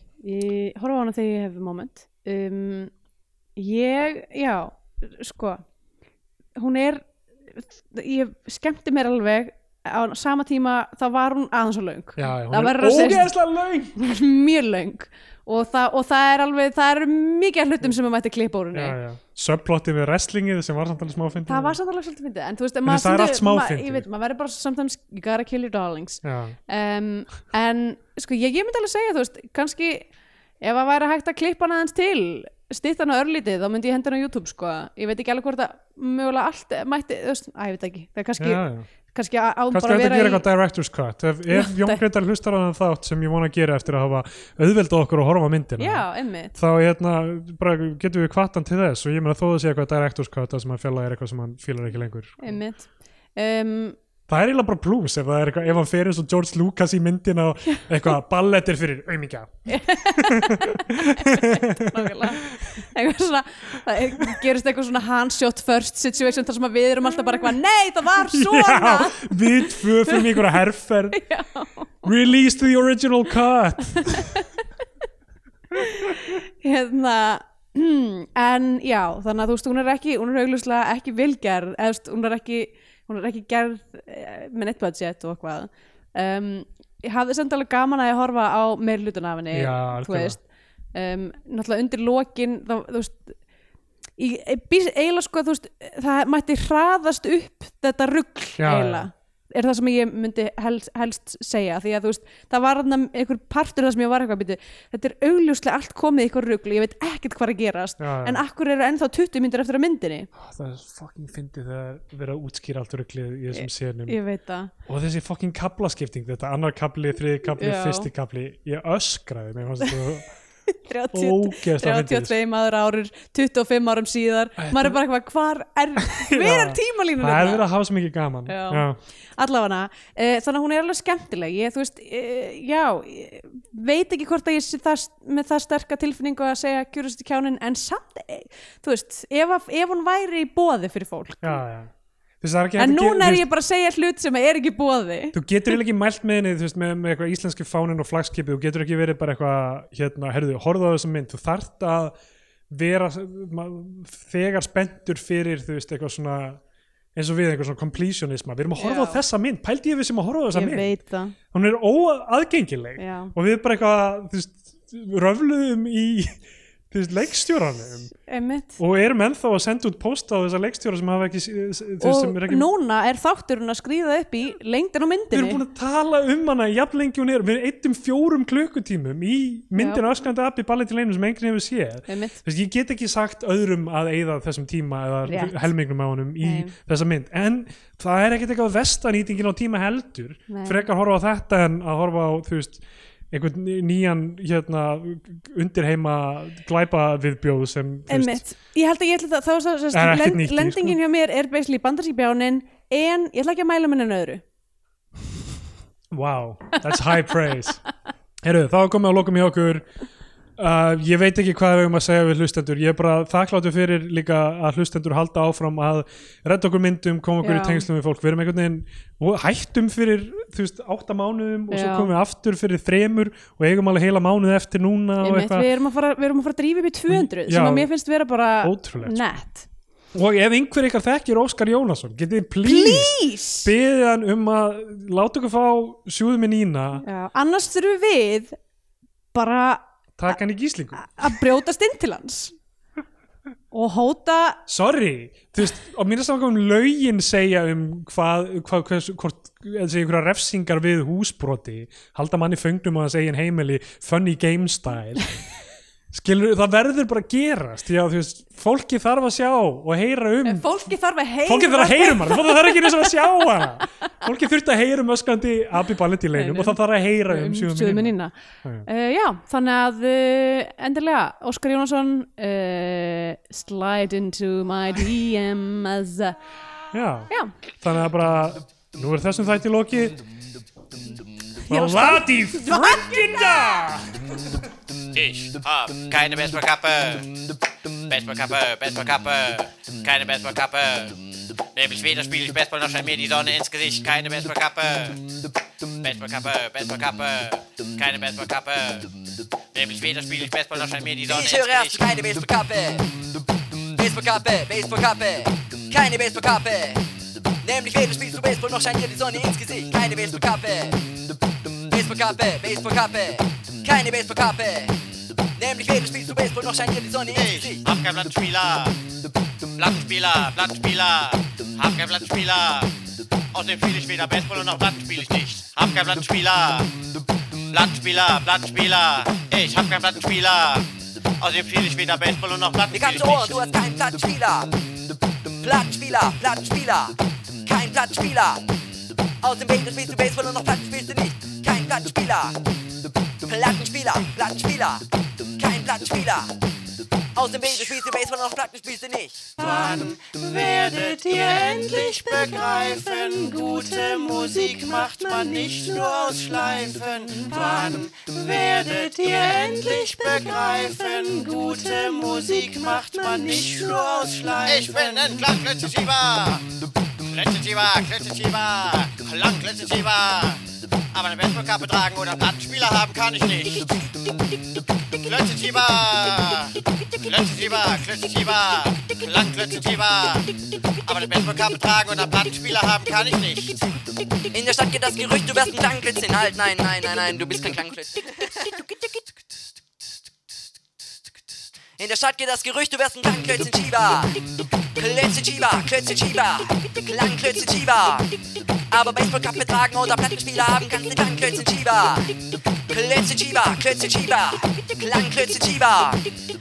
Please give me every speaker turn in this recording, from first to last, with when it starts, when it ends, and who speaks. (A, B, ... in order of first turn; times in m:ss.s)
0:00.2-0:02.9 A
0:03.6-0:05.6 A
0:06.6-0:13.3 A
0:12.2-0:14.0 B
0:14.0-0:19.0 A
0:18.7-0:21.8 B
0:21.4-0:30.1 A
0:22.8-0:24.0 B
0:26.2-0:26.6 B
0:30.6-0:40.4 A
0:38.4-0:38.9 B
0:39.7-0:46.0 B
0:41.5-0:42.0 A
0:45.8-0:46.6 A
0:46.6-0:52.6 B
0:52.4-0:54.0 A
0:54.3-1:02.3 B
0:59.7-1:10.4 A
1:08.3-1:11.2 B
1:11.1-1:12.1 A
1:12.0-1:14.4 B
1:14.0-1:14.4 A
1:15.8-1:30.4 A
1:29.5-1:30.4 B
1:30.9-1:33.4 A
1:34.2-1:50.3 A
1:38.6-1:39.1 B
1:48.0-1:48.4 B
1:50.3-1:54.2 B
1:53.5-1:54.7 A
1:54.8-2:00.3 B
1:57.6-1:58.1 A
2:00.7-2:07.6 A
2:01.1-2:02.3 B
2:04.6-2:05.0 B
2:06.0-2:09.0 B
2:08.5-2:21.6 A
2:21.4-2:23.4 B
2:22.8-2:25.4 A
2:25.3-2:32.1 B
2:32.7-2:36.6 B
2:37.1-2:41.0 B
2:38.8-2:39.2 A
2:40.5-2:41.3 A
2:41.5-2:46.4 B
2:43.0-2:43.3 A
2:46.9-2:48.1 B
2:48.2-2:48.8 A
2:48.8-2:52.6 B
2:52.0-2:55.6 A
2:55.3-3:18.4 B
2:59.8-3:00.0 A
3:02.1-3:02.4 A
3:05.2-3:05.7 A
3:06.4-3:06.7 A
3:10.5-3:10.9 A
3:18.1-3:24.4 A
3:19.9-3:21.0 B
3:26.1-3:27.8 B
3:28.4-3:29.9 B
3:30.6-3:45.7 B
3:37.4-3:37.8 A
3:41.7-3:42.1 A
3:45.2-3:49.7 A
3:47.1-3:47.9 B
3:48.6-3:49.2 B
3:50.1-3:57.0 B
3:52.6-3:53.7 A
3:57.0-3:58.6 A
3:59.3-4:00.4 A
4:00.2-4:01.3 B
4:01.0-4:02.5 A
4:03.7-4:04.6 A
4:04.7-4:15.3 B
4:16.1-4:20.7 B
4:20.4-4:23.4 A
4:21.4-4:28.9 B
4:26.3-4:28.3 A
4:28.8-4:36.4 A
4:36.9-4:40.2 B
4:41.7-4:43.6 A
4:41.7-4:44.2 B
4:45.1-4:47.3 C
4:48.1-4:51.2 C
4:51.7-4:55.2 C
4:56.0-4:59.1 C
4:59.7-5:02.0 C
5:01.3-5:03.0 D
5:04.0-5:07.0 D
5:07.6-5:11.0 D
5:11.9-5:15.0 D
5:15.6-5:17.8 D
5:17.3-5:19.0 C
5:19.8-5:22.9 C
5:23.5-5:26.9 C
5:27.7-5:30.9 C
5:31.4-5:33.6 C
5:32.9-5:34.7 D
5:35.6-5:38.6 D
5:39.4-5:42.6 D
5:43.4-5:45.0 D
5:45.6-5:46.5 D
5:47.3-5:49.5 D
5:49.6-6:05.4 E
6:04.7-6:06.6 C
6:07.3-6:13.9 C
6:15.2-6:20.5 C
6:21.0-6:23.8 C
6:24.5-6:28.3 D
6:32.0-6:34.4 D
6:35.0-6:38.3 D
6:38.9-6:42.3 D
6:42.9-6:46.3 D